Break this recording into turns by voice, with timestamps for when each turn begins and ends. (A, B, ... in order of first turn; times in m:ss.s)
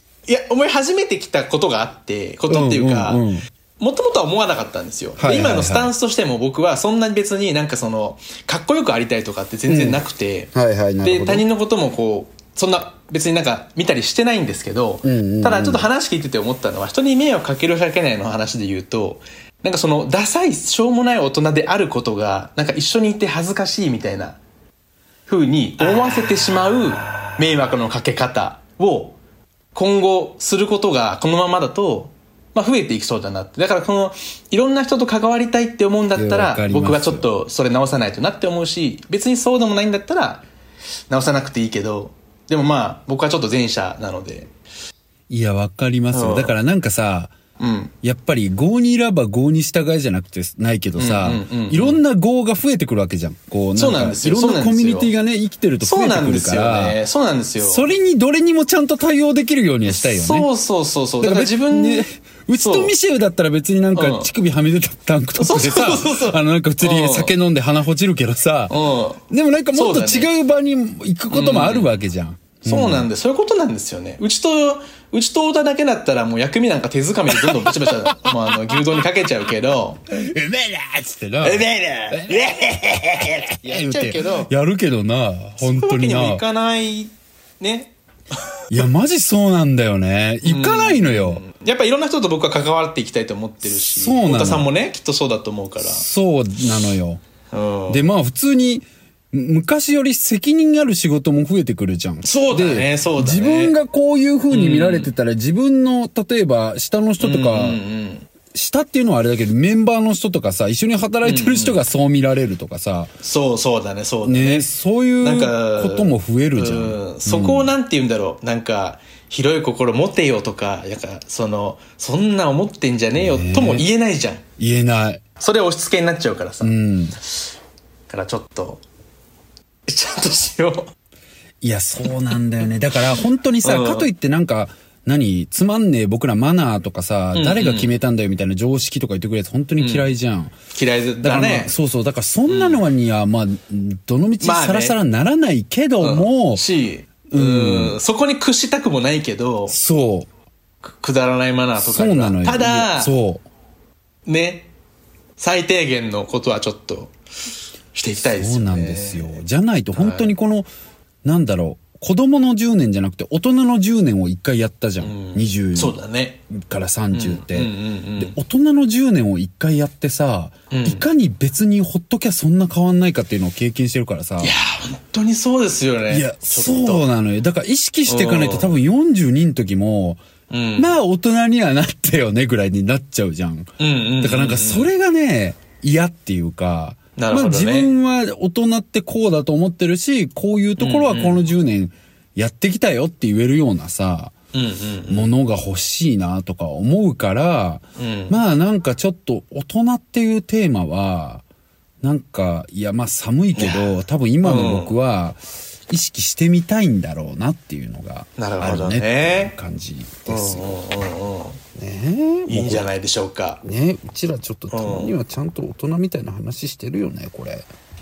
0:00.3-0:03.2 A
0:02.5-0:03.4 B
0:03.8-0:10.5 A
0:05.2-0:05.9 B
0:09.7-0:10.0 B
0:10.5-0:11.5 B
0:11.0-0:24.4 A
0:15.0-0:15.9 B
0:25.3-0:29.2 A
0:29.8-0:40.4 A
0:36.2-0:37.3 B
0:41.1-0:44.5 A
0:45.3-0:47.3 B
0:46.1-0:46.6 A
0:47.6-0:47.9 A
0:48.0-0:57.0 B
0:51.0-0:52.0 A
0:53.8-0:55.1 A
0:55.8-0:57.9 A
0:57.6-1:00.5 B
0:59.9-1:02.1 A
1:01.2-1:13.1 B
1:02.6-1:02.9 A
1:03.9-1:04.3 A
1:05.4-1:07.3 A
1:08.7-1:09.2 A
1:09.7-1:10.3 A
1:11.3-1:11.9 A
1:12.6-1:20.0 A
1:17.3-1:18.8 B
1:20.1-1:26.4 B
1:21.4-1:22.6 A
1:23.6-1:24.5 A
1:25.6-1:27.9 A
1:28.7-1:31.4 B
1:30.4-1:36.0 A
1:33.6-1:34.7 B
1:35.8-1:37.2 B
1:37.5-1:38.0 A
1:37.9-1:47.8 B
1:42.2-1:43.8 A
1:44.5-1:45.1 A
1:47.2-1:48.3 A
1:48.5-1:53.1 B
1:51.2-1:51.8 A
1:53.2-1:54.7 A
1:54.2-1:57.7 B
1:55.2-2:04.4 A
2:03.2-2:03.9 B
2:04.6-2:05.2 B
2:05.4-2:06.8 A
2:06.6-2:07.2 B
2:08.1-2:08.8 A
2:09.9-2:10.9 A
2:11.6-2:20.6 B
2:13.6-2:14.1 A
2:17.3-2:17.9 A
2:19.8-2:20.1 A
2:20.7-2:21.7 A
2:21.2-2:26.6 B
2:22.5-2:22.8 A
2:24.4-2:25.0 A
2:26.0-2:29.8 A
2:27.3-2:28.0 B
2:29.7-2:30.3 B
2:30.9-2:33.2 A
2:31.8-2:33.4 B
2:34.3-2:34.7 A
2:35.4-2:37.1 A
2:37.9-2:39.4 A
2:38.2-2:40.7 B
2:40.0-2:40.3 A
2:41.2-2:46.0 B
2:45.0-2:46.4 A
2:46.5-2:54.5 B
2:47.1-2:48.4 A
2:50.7-2:51.1 A
2:54.4-2:57.0 A
2:56.1-3:00.2 B
2:58.1-2:58.8 A
3:00.5-3:01.0 A
3:00.8-3:14.3 B
3:03.8-3:04.9 A
3:07.2-3:07.9 A
3:10.8-3:11.4 A
3:14.5-3:15.3 A
3:15.1-3:21.4 B
3:18.0-3:18.4 A
3:22.0-3:30.8 B
3:23.6-3:25.0 A
3:28.4-3:29.5 A
3:30.3-3:31.6 A
3:31.8-3:32.9 B
3:32.5-3:33.6 A
3:33.6-3:37.7 B
3:34.7-3:35.1 A